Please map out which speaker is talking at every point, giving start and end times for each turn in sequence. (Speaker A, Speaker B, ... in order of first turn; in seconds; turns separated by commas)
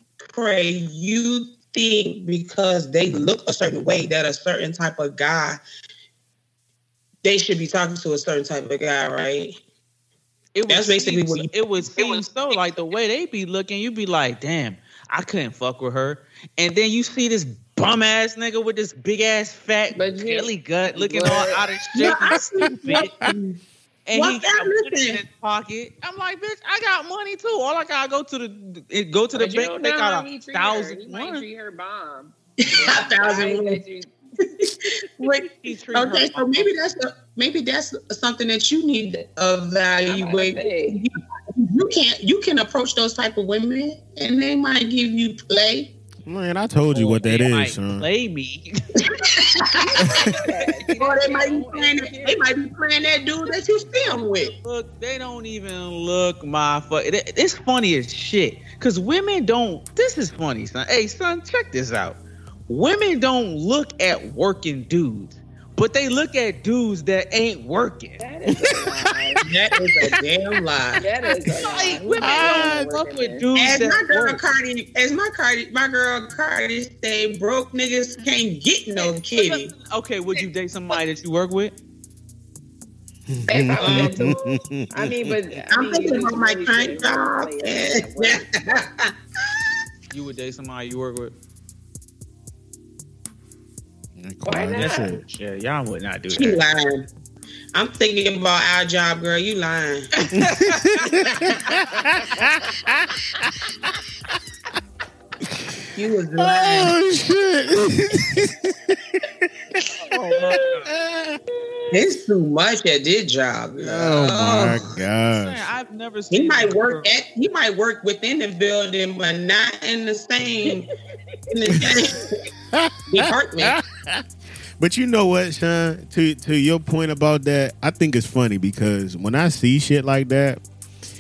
Speaker A: 0.2-5.6, Speaker A: 7.2-9.5, Speaker B: 10.6-23.1, Speaker A: 10.7-12.2, Speaker C: 19.9-21.6, Speaker A: 22.0-23.6, Speaker D: 22.6-23.3, Speaker B: 24.1-31.5, Speaker A: 24.1-25.2, Speaker C: 29.3-34.1, Speaker A: 32.6-33.8, Speaker A: 34.6-46.0, Speaker B: 35.6-36.7, Speaker C: 40.0-41.0, Speaker D: 46.2-48.1, Speaker B: 46.9-48.7, Speaker A: 49.0-50.2, Speaker C: 49.8-52.5, Speaker B: 50.0-51.3, Speaker A: 51.0-54.5, Speaker B: 54.4-68.2, Speaker C: 68.2-69.4, Speaker D: 68.5-70.2, Speaker A: 69.4-71.0, Speaker C: 71.0-73.5, Speaker B: 71.7-74.4, Speaker D: 72.2-72.9, Speaker A: 73.6-79.7, Speaker B: 79.0-81.7, Speaker D: 83.3-85.3, Speaker C: 83.5-88.4, Speaker A: 83.8-84.4, Speaker A: 85.7-89.7, Speaker B: 90.1-91.3, Speaker D: 94.2-95.2, Speaker C: 94.5-95.1, Speaker B: 94.8-96.6, Speaker A: 96.3-97.1, Speaker A: 97.7-100.1, Speaker B: 100.2-101.2, Speaker D: 100.4-103.5, Speaker C: 101.2-102.5, Speaker D: 105.5-105.8, Speaker A: 106.0-106.9, Speaker D: 106.4-109.2, Speaker D: 109.7-111.4, Speaker C: 110.1-110.6, Speaker B: 110.2-110.9, Speaker A: 111.9-114.9, Speaker D: 113.8-115.6, Speaker B: 115.3-117.1, Speaker A: 116.3-120.9, Speaker A: 121.5-122.4, Speaker D: 122.7-124.2, Speaker A: 123.1-123.8, Speaker D: 124.8-130.6